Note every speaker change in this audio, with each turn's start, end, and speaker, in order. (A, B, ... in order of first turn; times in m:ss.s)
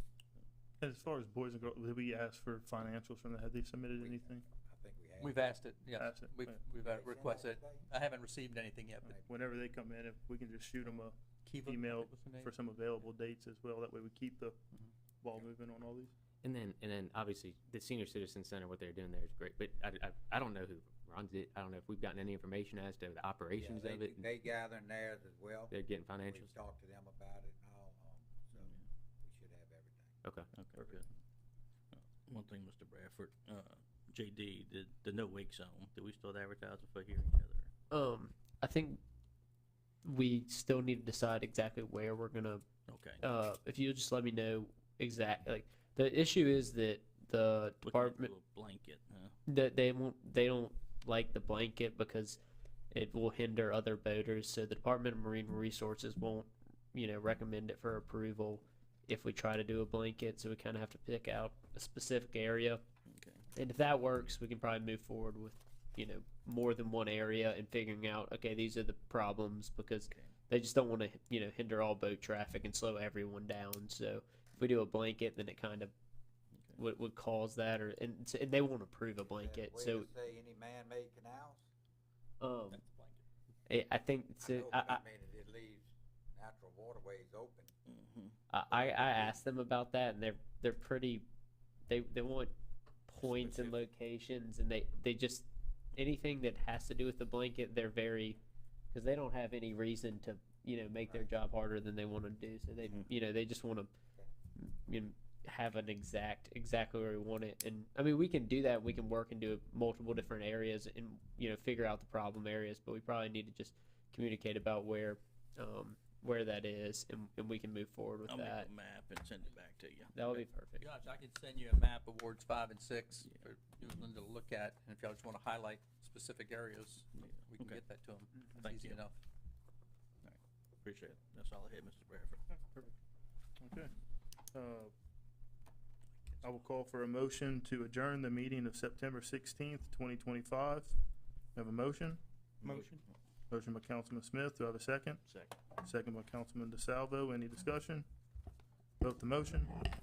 0:00.8-0:04.4 A
0:04.0-0:05.4 B
0:05.2-0:09.1 C
0:06.0-0:06.5 A
0:06.8-0:07.8 B
0:09.2-0:14.6 A
0:11.4-0:12.5 C
0:15.2-0:16.1 A
0:16.4-0:24.3 D
0:23.6-0:25.7 B
0:25.7-0:26.5 D
0:26.2-0:30.2 B
0:30.5-0:31.0 E
0:31.9-0:37.7 E
0:37.9-0:39.0 F
0:40.0-0:42.6 F
0:42.9-0:43.2 E
0:43.2-0:48.3 F
0:47.8-0:49.3 E
0:49.5-0:52.4 F
0:52.9-1:02.8 F
1:03.1-1:03.4 E
1:03.5-1:15.9 F
1:16.8-1:20.1 F
1:19.3-1:21.7 B
1:22.4-1:22.8 F
1:22.7-1:23.2 C
1:23.7-1:25.0 F
1:24.4-1:27.7 B
1:27.9-1:29.3 E
1:28.5-1:31.2 F
1:31.9-1:32.5 F
1:33.1-1:38.4 F
1:33.2-1:33.8 E
1:38.9-1:43.9 F
1:44.6-1:58.7 F
1:58.3-2:00.4 E
2:00.1-2:00.9 F
2:00.8-2:09.1 C
2:03.2-2:04.0 E
2:07.2-2:07.8 E
2:08.6-2:09.0 E
2:10.2-2:12.4 E
2:13.6-2:13.9 A
2:14.5-2:14.9 A
2:16.4-2:21.0 A
2:21.5-2:23.0 A
2:22.6-2:22.9 E
2:23.5-2:25.2 A
2:25.3-2:25.5 E
2:25.8-2:28.0 A
2:29.0-2:29.8 A